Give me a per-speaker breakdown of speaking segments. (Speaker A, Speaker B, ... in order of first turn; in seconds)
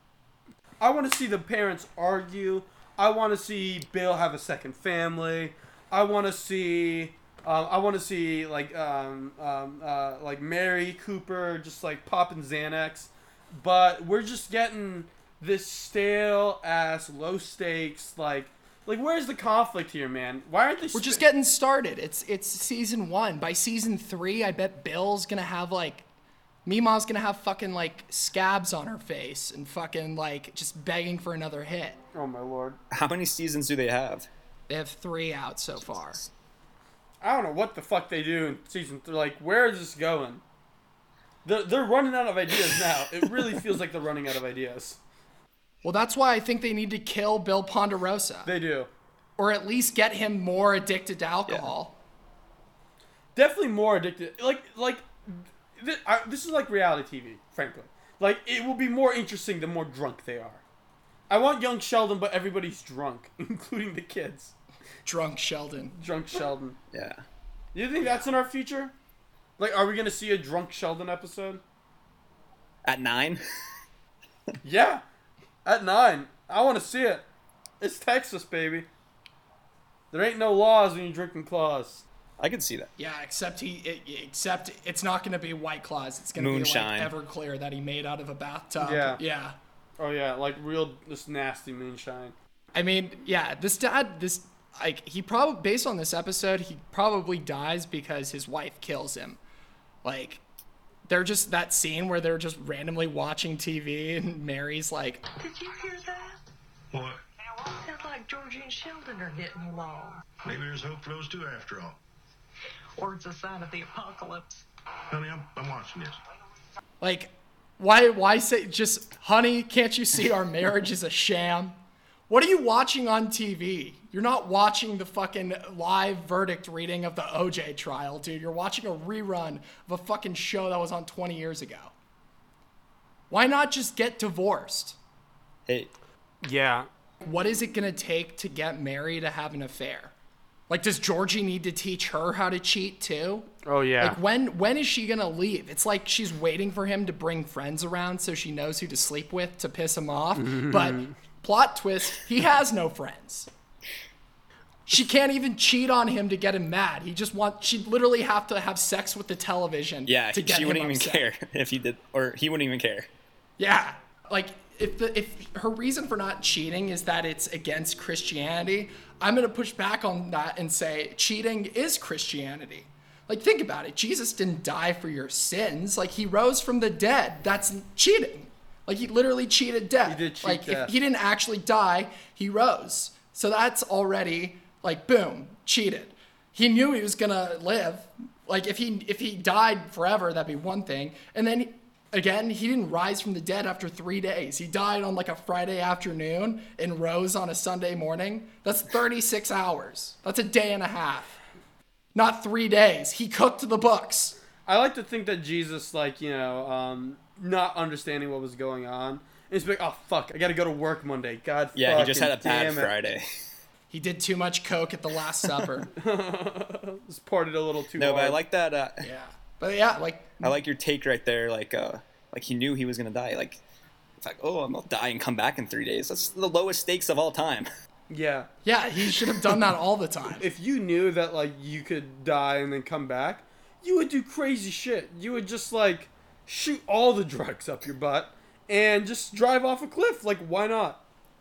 Speaker A: 0.8-21.2, 32.1-32.8, 37.2-40.4, 41.4-45.0, 48.4-48.9, 53.3-60.6, 61.3-64.5, 65.9-66.8, 67.7-68.9, 69.6-71.6, 74.6-75.0, 75.6-77.2, 77.8-78.9, 80.1-82.0, 88.8-89.2, 90.0-92.3, 136.4-136.9, 143.6-144.2, 150.3-151.1, 180.0-180.9, 204.6-212.9, 215.9-218.4, 228.1-228.5, 230.4-241.0
Speaker B: 20.9-26.1, 26.6-32.0, 34.7-36.2, 45.8-48.5, 49.4-52.0, 65.0-65.9, 83.0-89.6, 92.7-99.4, 100.0-100.4, 101.1-105.2, 117.0-121.8, 122.3-131.9, 133.3-135.0, 137.2-140.1, 140.7-153.5, 154.9-161.2, 163.6-201.3, 202.1-204.4, 213.9-215.9, 219.0-220.5, 228.6-230.4
Speaker C: 32.9-34.3, 66.9-67.2, 72.8-73.4, 82.4-82.9, 86.3-87.1, 135.7-135.9, 160.0-163.1, 211.7-213.2, 218.0-219.1, 220.4-223.6, 224.2-227.7
Speaker D: 105.4-106.3, 107.8-110.2, 113.0-114.6
Speaker E: 106.9-107.2, 110.4-112.0, 115.1-116.2